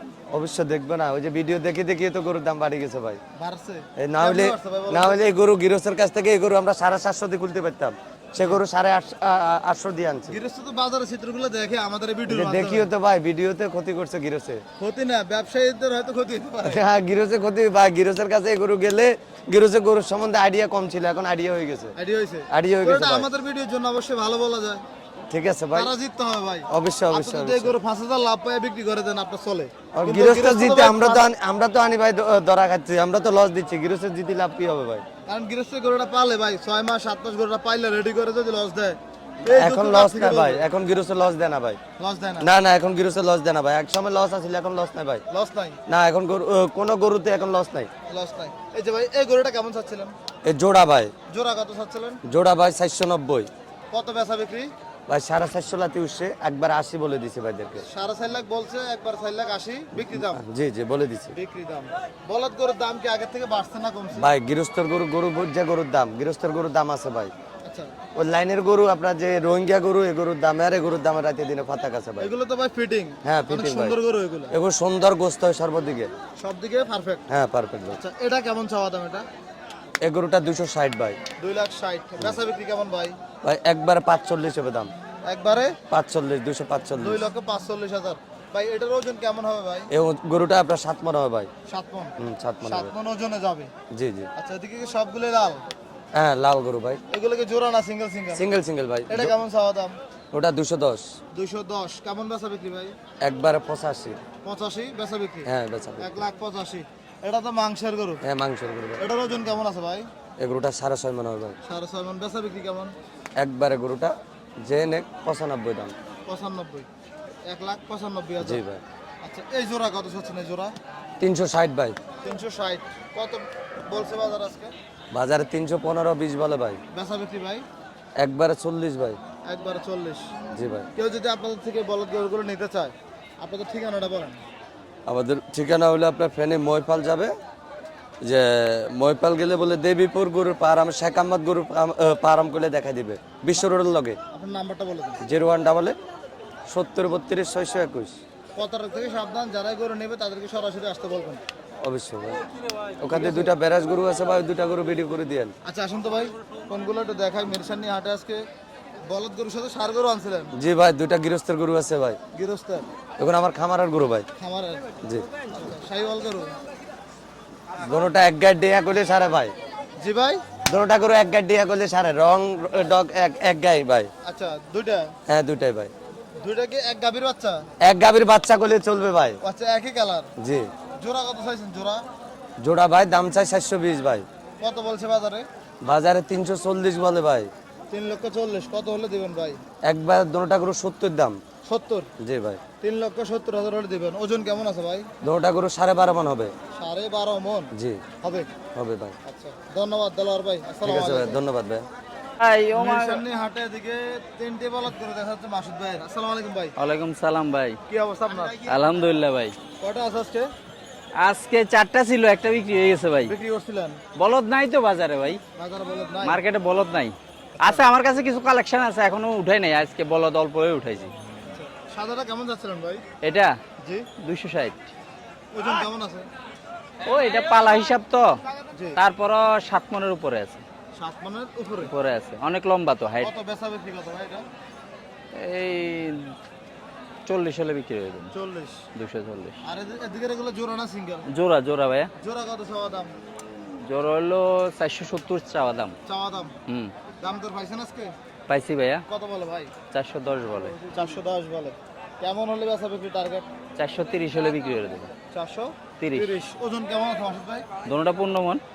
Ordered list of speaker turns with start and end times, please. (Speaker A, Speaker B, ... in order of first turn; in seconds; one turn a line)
Speaker A: 0.3-3.2
Speaker B: 3.4-5.2
Speaker A: 4.0-10.4
Speaker B: 10.3-12.9
Speaker A: 12.3-14.6
Speaker B: 14.8-16.8
Speaker A: 16.6-21.9
Speaker B: 22.0-24.8
Speaker A: 22.5-23.3
Speaker A: 25.3-25.9
Speaker B: 25.7-31.3
Speaker A: 26.7-27.8
Speaker A: 29.9-35.0
Speaker B: 35.3-40.6
Speaker A: 39.4-41.8
Speaker B: 42.0-42.5
Speaker A: 42.4-45.2
Speaker B: 45.3-45.8
Speaker A: 45.9-47.9
Speaker B: 48.1-50.1
Speaker A: 50.5-51.1
Speaker B: 51.3-52.2
Speaker A: 52.2-53.5
Speaker B: 53.9-54.7
Speaker A: 55.1-57.9
Speaker B: 57.9-60.4
Speaker A: 60.0-61.3
Speaker B: 61.3-64.3
Speaker A: 64.2-67.3
Speaker B: 67.7-67.9
Speaker A: 68.2-72.3
Speaker B: 72.2-74.5
Speaker A: 73.2-74.0
Speaker A: 74.5-76.1
Speaker B: 76.4-77.2
Speaker A: 77.3-78.0
Speaker B: 77.9-79.2
Speaker A: 80.0-81.2
Speaker B: 81.4-83.2
Speaker A: 83.4-84.9
Speaker B: 85.3-85.8
Speaker A: 85.9-87.2
Speaker B: 87.0-89.9
Speaker A: 89.9-91.5
Speaker B: 91.7-92.1
Speaker A: 92.2-92.9
Speaker B: 92.7-93.7
Speaker A: 93.9-94.3
Speaker B: 94.4-95.6
Speaker A: 96.2-97.0
Speaker B: 97.1-98.4
Speaker A: 98.3-99.3
Speaker B: 99.1-100.0
Speaker A: 100.3-101.1
Speaker B: 101.3-102.9
Speaker A: 103.2-104.2
Speaker B: 104.4-105.5
Speaker A: 105.5-106.2
Speaker B: 106.0-108.2
Speaker A: 108.2-109.0
Speaker B: 109.0-110.1
Speaker A: 110.4-111.6
Speaker B: 111.6-112.9
Speaker A: 113.4-115.9
Speaker B: 116.3-116.9
Speaker B: 117.5-118.6
Speaker A: 118.4-118.8
Speaker B: 119.2-120.7
Speaker A: 121.2-122.0
Speaker B: 122.2-124.7
Speaker A: 125.1-126.8
Speaker B: 126.9-127.7
Speaker A: 128.2-129.2
Speaker B: 129.5-130.3
Speaker A: 130.6-130.9
Speaker B: 131.0-134.4
Speaker A: 135.1-137.3
Speaker A: 138.2-144.2
Speaker B: 144.3-145.2
Speaker A: 145.2-146.0
Speaker A: 146.7-148.2
Speaker B: 148.6-151.4
Speaker A: 151.8-152.4
Speaker A: 153.0-155.5
Speaker B: 153.1-153.5
Speaker B: 155.6-158.4
Speaker B: 159.1-160.5
Speaker A: 160.5-162.2
Speaker B: 162.3-162.9
Speaker A: 163.2-164.3
Speaker B: 164.4-164.9
Speaker B: 165.5-166.5
Speaker A: 167.8-169.5
Speaker B: 170.0-170.4
Speaker A: 170.7-174.1
Speaker B: 174.2-175.1
Speaker A: 175.3-175.9
Speaker B: 176.4-177.7
Speaker A: 177.8-179.4
Speaker B: 179.4-180.3
Speaker A: 180.4-180.7
Speaker B: 181.0-182.0
Speaker A: 182.6-184.3
Speaker B: 184.6-185.5
Speaker A: 185.8-187.5
Speaker B: 187.9-189.6
Speaker A: 189.8-191.4
Speaker B: 191.7-192.1
Speaker A: 192.2-192.6
Speaker B: 192.8-195.1
Speaker A: 195.2-196.5
Speaker B: 196.8-197.7
Speaker A: 197.7-198.0
Speaker B: 198.2-198.5
Speaker A: 198.8-199.2
Speaker B: 199.3-201.4
Speaker A: 200.8-201.8
Speaker C: 202.4-203.2
Speaker B: 202.7-206.8
Speaker C: 206.8-207.8
Speaker B: 207.9-208.8
Speaker C: 208.6-209.6
Speaker B: 209.8-210.5
Speaker C: 211.2-213.3
Speaker B: 213.2-214.0
Speaker C: 214.2-215.4
Speaker B: 215.6-216.4
Speaker C: 216.2-221.1
Speaker B: 217.6-217.9
Speaker B: 221.5-223.0
Speaker C: 223.2-223.6
Speaker B: 223.8-224.1
Speaker C: 224.2-224.8
Speaker B: 225.5-226.3
Speaker C: 227.0-228.4
Speaker B: 228.6-229.0
Speaker C: 229.0-230.6
Speaker B: 230.9-231.9
Speaker C: 231.8-233.3
Speaker B: 233.2-234.4
Speaker C: 235.3-236.3
Speaker C: 237.3-238.3
Speaker B: 238.3-238.8
Speaker C: 239.0-239.6
Speaker B: 239.6-241.3
Speaker C: 241.3-242.1
Speaker B: 242.2-243.1
Speaker C: 243.9-246.0
Speaker B: 246.1-246.5
Speaker B: 247.2-248.1
Speaker C: 248.5-249.0
Speaker B: 249.1-249.7
Speaker C: 249.9-250.8
Speaker B: 250.6-253.5
Speaker C: 253.8-255.1
Speaker B: 255.3-257.6
Speaker C: 256.0-256.4
Speaker C: 257.9-258.6